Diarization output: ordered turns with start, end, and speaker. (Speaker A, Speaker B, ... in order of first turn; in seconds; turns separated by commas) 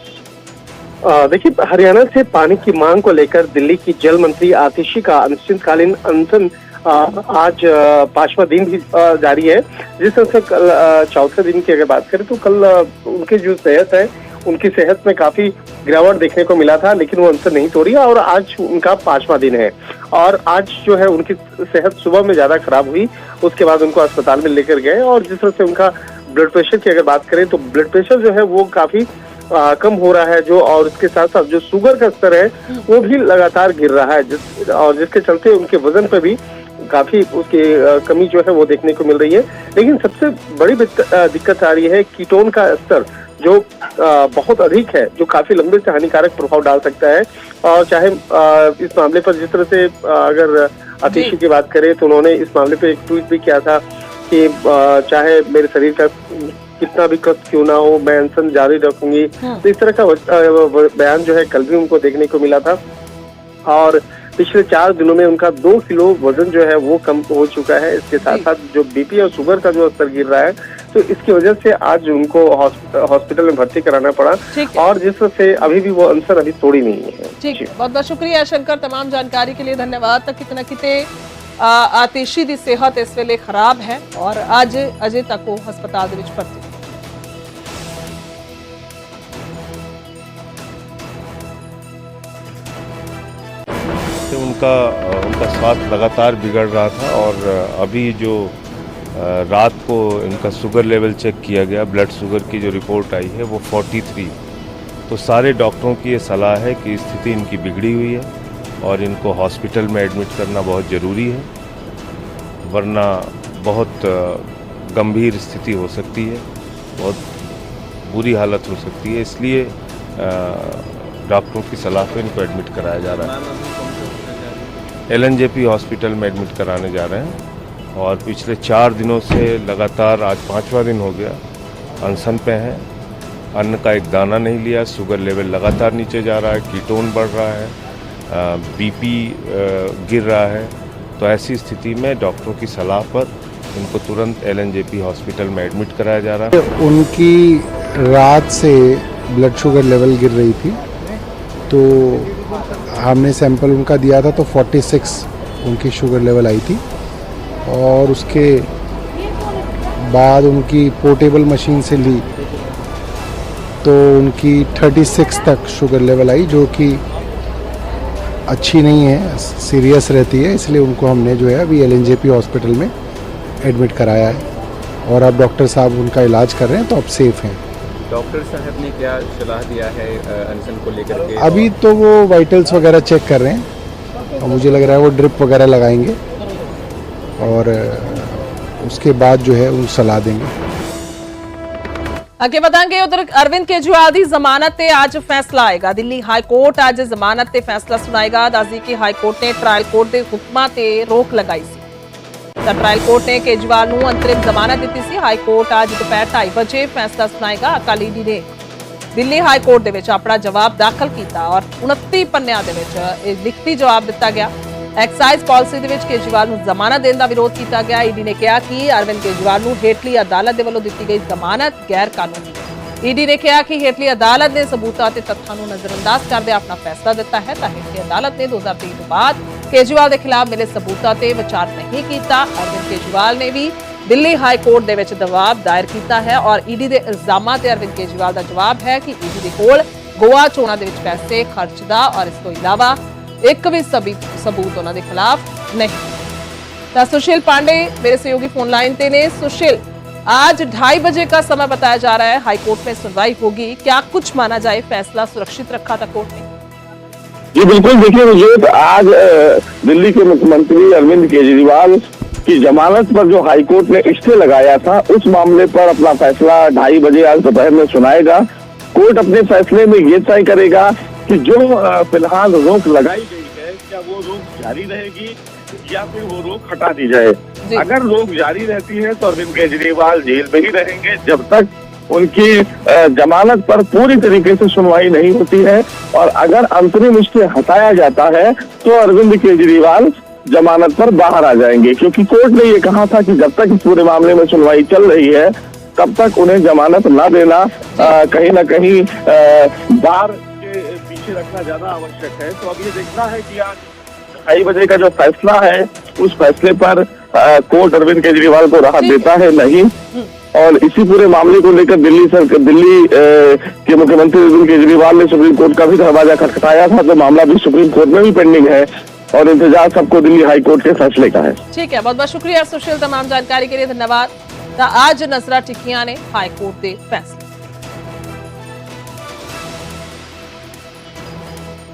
Speaker A: 1.0-62.8, Speaker B: 51.1-51.3, Speaker A: 63.7-77.7, Speaker B: 74.5-74.8, Speaker B: 77.4-81.1, Speaker B: 81.6-86.7, Speaker C: 94.3-98.5, Speaker C: 99.1-104.3, Speaker C: 105.1-108.3, Speaker C: 108.8-111.5, Speaker C: 112.7-116.5, Speaker C: 117.0-117.5, Speaker C: 118.0-123.3, Speaker D: 123.0-124.9, Speaker C: 125.1-127.4, Speaker C: 127.9-131.4, Speaker C: 132.0-132.8, Speaker C: 133.5-137.7, Speaker C: 138.3-146.6, Speaker E: 146.6-150.8, Speaker E: 151.7-152.4, Speaker E: 152.9-156.8, Speaker E: 157.7-158.7, Speaker E: 160.0-162.3, Speaker E: 163.8-167.0, Speaker E: 168.5-172.9, Speaker E: 173.6-174.4, Speaker E: 175.1-177.6, Speaker D: 178.1-181.7, Speaker E: 181.4-183.7, Speaker E: 184.4-186.2, Speaker E: 187.4-190.5, Speaker B: 192.4-201.8, Speaker B: 202.6-208.5, Speaker B: 209.2-246.1, Speaker B: 246.9-256.4, Speaker F: 257.6-303.8, Speaker F: 304.4-309.9, Speaker B: 309.0-309.3, Speaker F: 310.5-321.6, Speaker B: 321.7-327.4